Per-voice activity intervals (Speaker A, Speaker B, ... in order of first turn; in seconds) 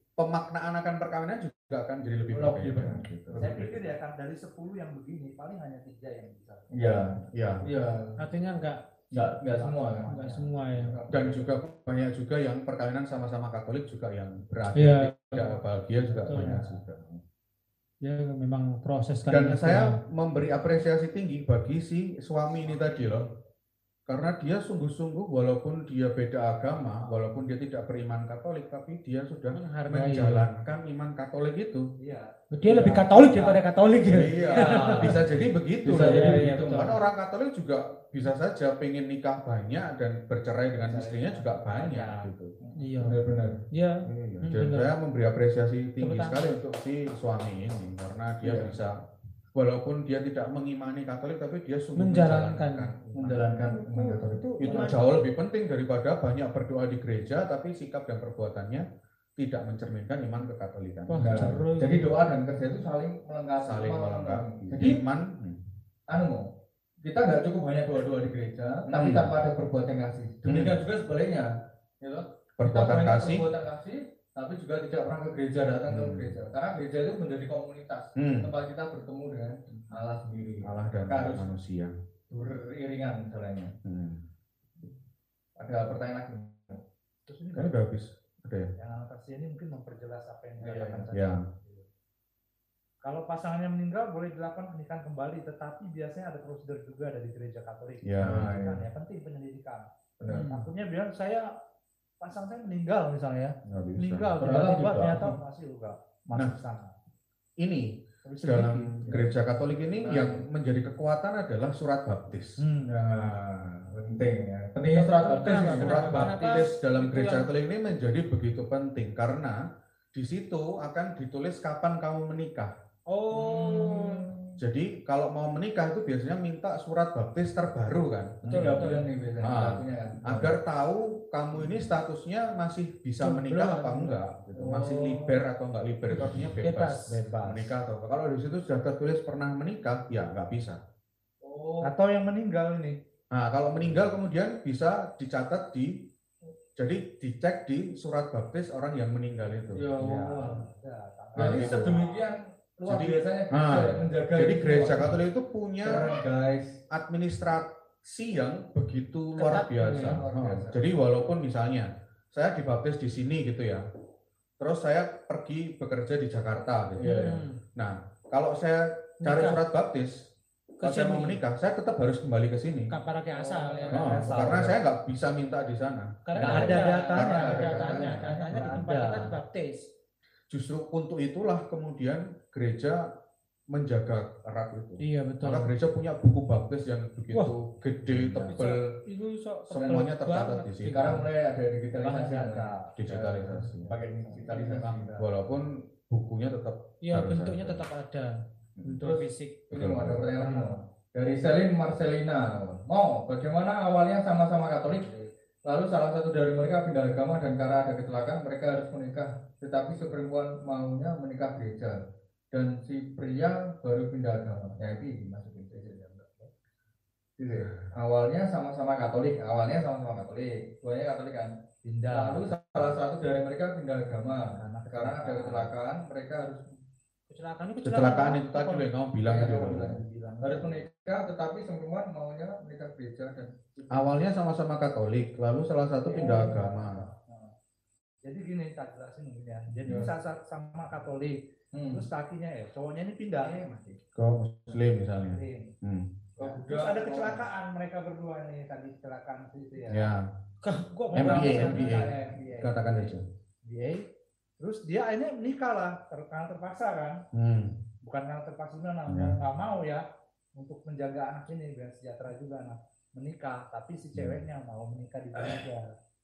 Speaker A: 0.2-3.9, 7.3-7.7, 11.1-17.2, 19.3-23.3, 24.1-31.9, 34.0-42.5, 44.1-49.0, 49.5-58.9, 59.4-61.6, 63.6-65.6, 68.9-69.4, 70.5-70.8, 72.6-73.5, 75.9-76.4, 78.2-78.5, 80.6-81.9, 83.8-84.2, 87.5-88.7, 91.1-91.4, 98.0-98.6, 103.7-104.4, 107.6-112.6, 113.2-113.8, 115.5-119.6, 120.1-122.7, 124.6-140.8, 143.3-146.1, 146.8-149.9, 151.4-152.0, 152.9-156.2, 156.9-163.8, 164.6-170.2, 170.8-172.9, 173.9-178.3, 180.5-183.1, 183.7-189.0, 189.7-191.2, 193.0-193.9, 195.1-197.8, 198.8-199.0, 199.7-200.3, 227.8-229.9, 233.9-237.0, 244.2-246.1, 249.9-250.3, 251.1-253.3, 257.3-257.8, 259.1-259.4, 264.2-264.4
Speaker B: 2.3-3.7, 6.7-8.2, 9.1-10.1, 10.8-11.5, 16.3-16.7, 32.7-33.6, 34.4-35.2, 35.8-36.9, 42.6-43.6, 48.4-48.7, 53.1-55.0, 61.2-65.0, 66.1-66.5, 67.0-71.5, 72.0-81.5, 82.3-83.7, 85.6-86.8, 90.6-91.1, 98.2-98.8, 100.2-100.5, 104.4-105.4, 110.0-110.5, 112.9-116.7, 123.3-124.6, 128.5-130.5, 134.6-135.4, 141.4-141.9, 149.7-150.7, 151.3-155.2, 155.8-156.8, 160.0-160.8, 167.0-167.4, 173.5-174.7, 176.8-178.7, 189.8-190.1, 190.9-195.2, 199.0-205.1, 205.7-216.1, 217.4-221.5, 222.1-226.6, 229.2-234.1, 239.9-240.1, 241.7-242.1, 243.4-244.0, 246.4-247.5, 251.2-252.6
Speaker C: 3.4-7.0, 9.5-11.0, 22.5-23.3, 26.9-27.3, 32.0-32.3, 34.6-35.1, 40.8-42.3, 87.3-87.7, 88.8-91.9, 93.0-101.5, 102.2-107.0, 108.2-109.3, 112.6-113.0, 136.2-136.5, 137.1-137.8, 141.8-143.0, 150.0-152.3, 173.3-174.8, 176.4-179.4, 188.1-188.5, 192.0-193.0, 193.8-195.2, 200.3-200.9, 204.9-205.3, 215.8-216.5, 221.8-222.5, 224.5-225.7, 229.6-230.8, 236.1-237.5, 238.2-243.7, 245.2-245.7, 246.4-250.2, 251.2-257.2, 258.0-265.9
Speaker D: 8.2-8.8, 10.1-10.9, 14.7-15.5, 16.3-16.5, 18.0-20.0, 29.5-30.5, 32.5-35.2, 36.0-37.0, 42.8-43.2, 43.7-44.9, 46.0-46.6, 52.0-52.9, 54.1-55.2, 61.1-62.1, 100.3-100.7, 114.9-117.5, 123.1-124.2, 128.4-129.1, 133.2-134.2, 136.6-137.2, 159.4-160.2, 167.0-167.6, 169.2-169.6, 170.8-171.4, 172.9-174.3, 176.3-179.9, 185.0-185.7, 188.4-191.3, 197.0-198.3, 198.8-199.6, 227.3-228.9, 250.6-252.1